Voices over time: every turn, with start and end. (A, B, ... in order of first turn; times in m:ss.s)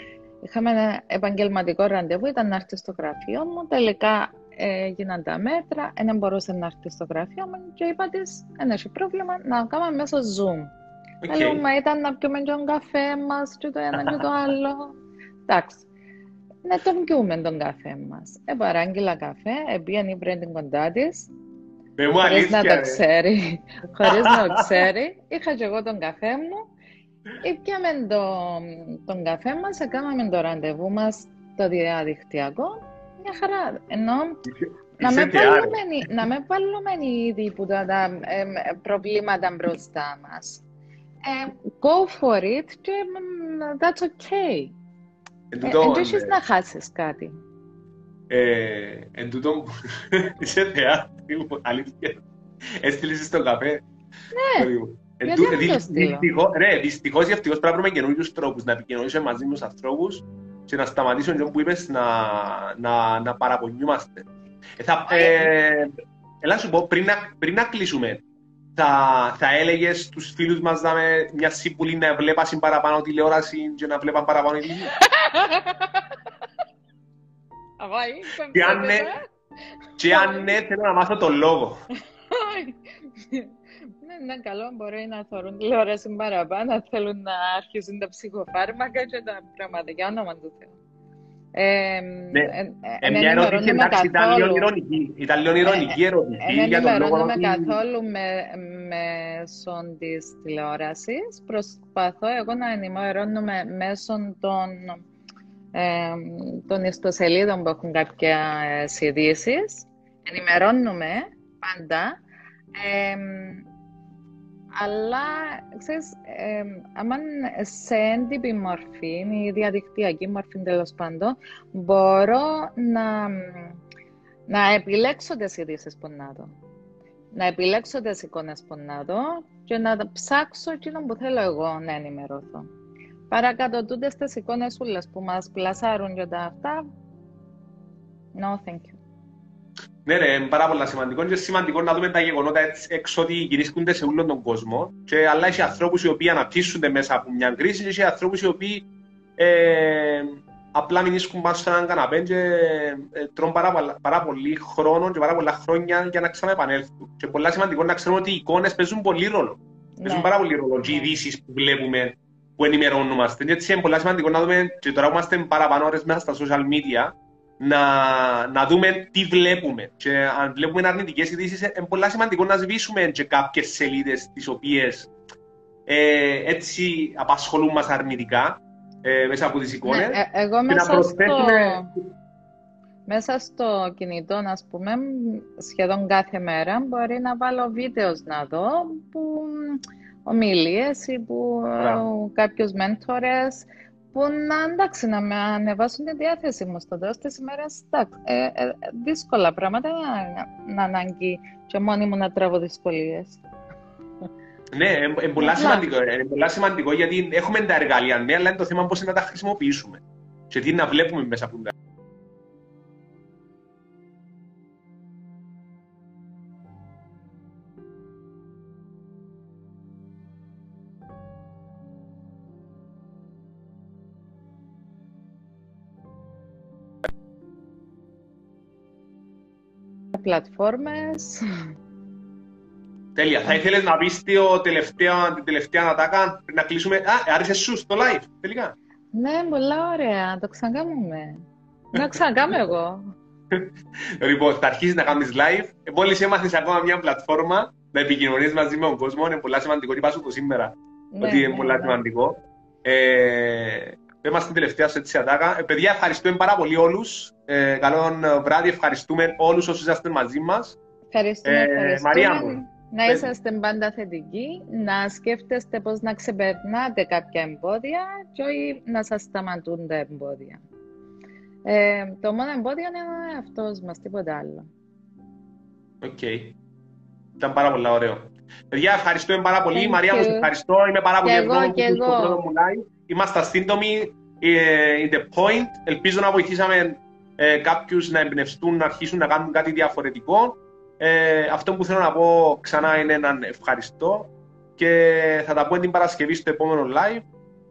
0:00.4-0:10.7 A
0:11.2-0:11.6 B
0:11.3-0:15.0 A
0:14.0-0:14.2 B
0:15.5-0:15.8 A
0:16.6-0:21.3 A
0:22.0-0:23.0 B
0:22.2-0:26.7 A
0:24.1-0:24.8 B
0:27.4-0:34.4 A
0:34.5-0:35.8 B
0:35.0-0:40.6 A
0:41.3-0:44.8 A
0:45.5-0:46.4 B
0:45.6-0:47.3 A
0:48.3-0:53.8 B
0:54.3-0:54.7 A
0:54.6-1:04.3 B
0:55.2-0:56.3 A
1:04.8-1:08.2 B
1:05.1-1:05.5 A
1:08.8-1:14.9 B
1:15.0-1:16.1 A
1:17.8-1:19.2 A
1:18.5-1:19.1 B
1:20.0-1:21.8 B
1:20.1-1:20.6 A
1:22.3-1:30.8 A
1:31.6-1:34.7 A
1:32.3-1:37.8 B
1:35.6-1:45.0 A
1:45.8-1:52.2 A
1:52.8-1:53.7 A
1:54.8-2:03.8 A
2:04.5-2:06.5 A
2:07.4-2:12.7 A
2:13.3-2:16.9 A
2:18.4-2:19.0 A
2:20.0-2:28.9 B
2:29.4-2:55.1 B
2:40.0-2:41.1 A
2:55.9-3:02.0 B
2:59.8-3:01.9 A
3:03.1-3:23.4 A
3:11.8-3:12.1 B
3:24.7-3:31.7 B
3:25.4-3:25.8 A
3:50.1-3:51.4 A
3:53.2-3:58.7 B
3:59.1-4:03.1 A
4:01.9-4:02.6 B
4:03.5-4:20.8 B
4:11.1-4:12.0 A
4:21.1-4:30.6 A
4:21.4-4:23.3 B
4:31.7-4:34.7 A
4:36.0-4:36.6 B
4:37.4-4:57.3 B
4:39.8-4:40.5 A
4:41.2-4:42.4 A